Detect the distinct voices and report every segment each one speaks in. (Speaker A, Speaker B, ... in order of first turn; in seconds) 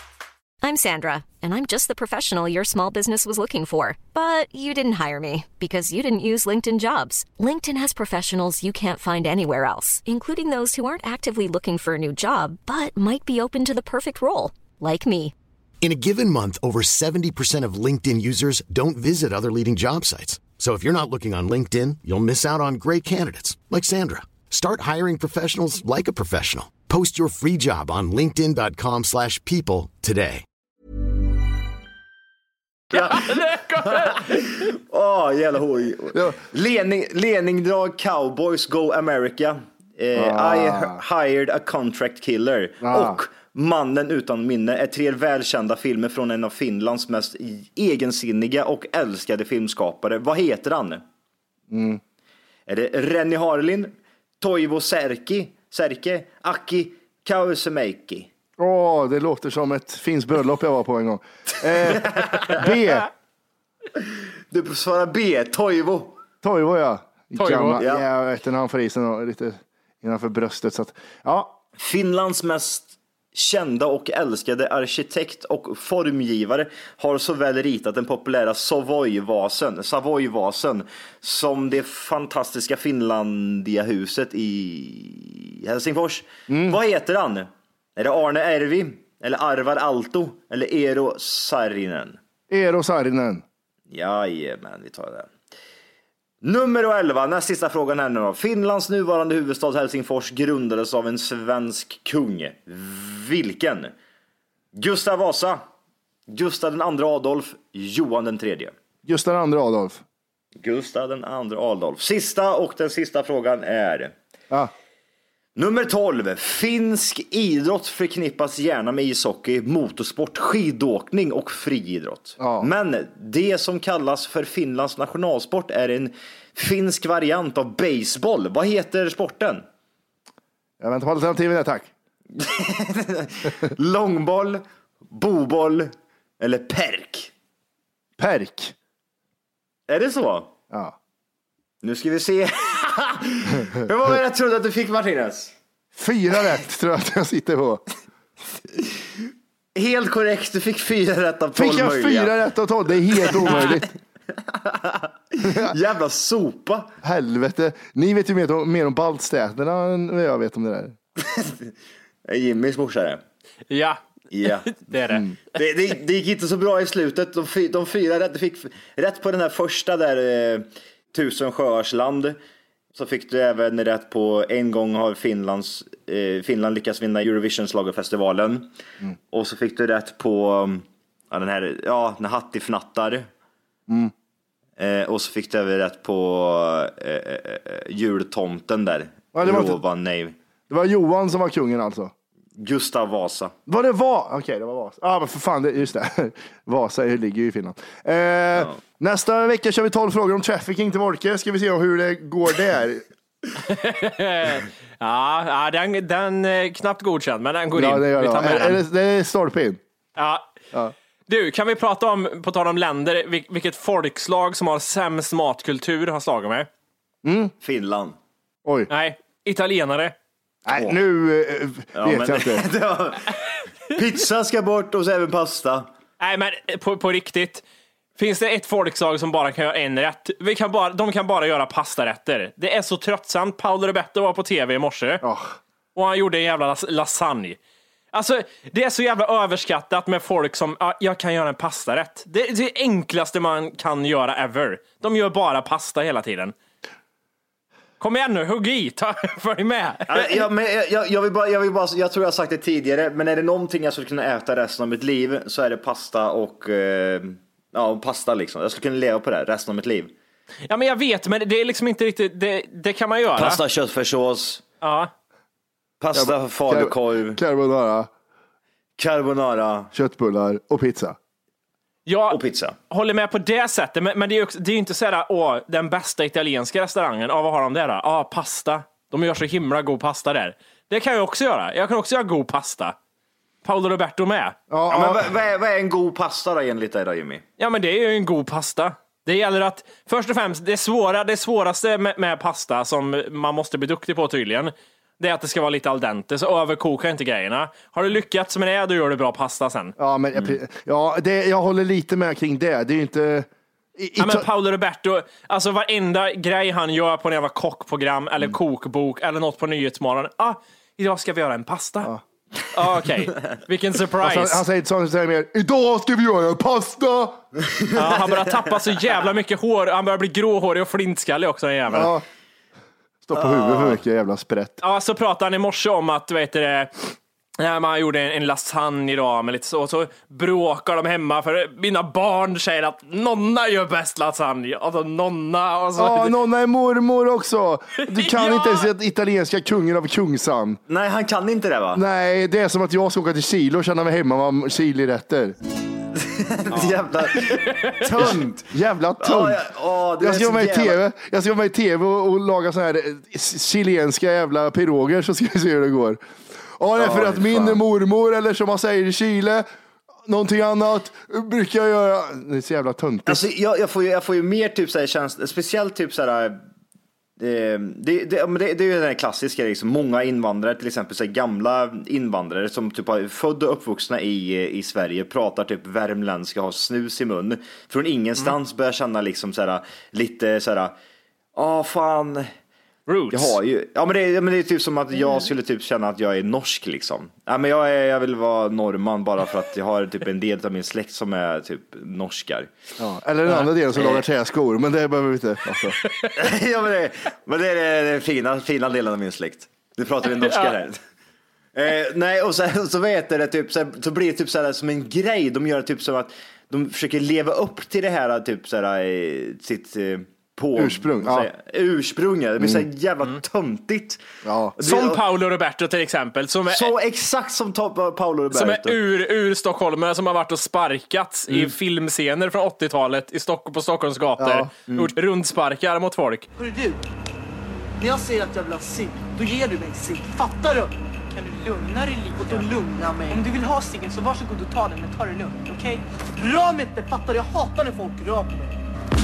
Speaker A: 0.6-15.3
Speaker B: 15.8-30.4
Speaker C: 32.9-34.3, 67.4-67.8, 163.7-164.0, 164.7-165.2, 203.6-208.8, 210.2-210.5, 211.3-216.7, 218.9-220.1, 226.2-227.6, 228.2-235.2, 235.9-237.6, 238.1-246.5, 248.0-250.4, 260.7-263.6, 264.8-265.1, 272.1-272.4, 272.9-282.9, 283.6-284.6, 287.6-299.9, 304.2-312.1, 312.7-314.6, 317.9-322.1, 324.8-326.9, 327.6-336.4, 338.0-338.9, 347.3-348.3, 383.1-383.6, 400.4-400.7, 414.8-416.9, 418.5-426.4
Speaker D: 32.9-51.0, 52.7-58.3, 61.9-62.6, 64.5-66.2, 67.8-68.0, 71.8-92.2, 93.9-95.3, 96.4-103.9, 104.7-105.6, 106.3-108.7, 110.6-114.1, 115.5-129.6, 132.3-137.3, 139.9-140.5, 141.8-145.5, 149.7-152.3, 153.3-153.8, 154.5-156.9, 161.2-161.7, 162.3-163.2, 164.3-164.8, 165.5-172.4, 172.9-178.7, 179.3-183.3, 184.8-190.3, 192.6-193.5, 217.6-218.2, 221.9-223.3, 223.9-225.9, 250.1-260.1, 263.4-264.6, 266.0-267.4, 269.0-269.9, 272.3-272.8, 284.9-287.4, 323.3-324.0, 340.9-342.0, 346.1-351.0, 357.0-357.8, 363.3-366.6, 367.4-380.9, 381.6-382.5, 383.3-392.7, 393.9-394.2, 396.4-401.0, 401.7-414.2, 414.8-415.2, 416.7-419.0
Speaker E: 40.1-41.0, 42.8-43.2, 51.7-52.0, 58.6-63.1, 66.4-71.6, 86.5-86.8, 92.5-93.4, 109.0-110.0, 122.4-122.7, 130.8-131.9, 138.2-138.7, 145.9-147.8, 151.6-153.9, 155.4-155.7, 157.0-160.9, 183.9-184.1, 189.3-189.8, 190.7-192.1, 193.7-203.0, 207.7-209.8, 217.2-217.5, 220.7-222.6, 235.2-235.5, 266.1-268.1, 269.9-271.2, 284.7-285.3, 300.0-304.5, 314.2-317.4, 321.9-322.2, 323.2-324.8, 336.0-340.8, 341.9-345.6, 348.7-349.6, 350.2-356.2, 356.8-359.6, 360.2-363.4, 393.0-396.0, 410.8-411.5, 412.6-412.8, 414.4-414.7, 424.4-424.7
Speaker F: 426.6-427.0, 428.0-438.8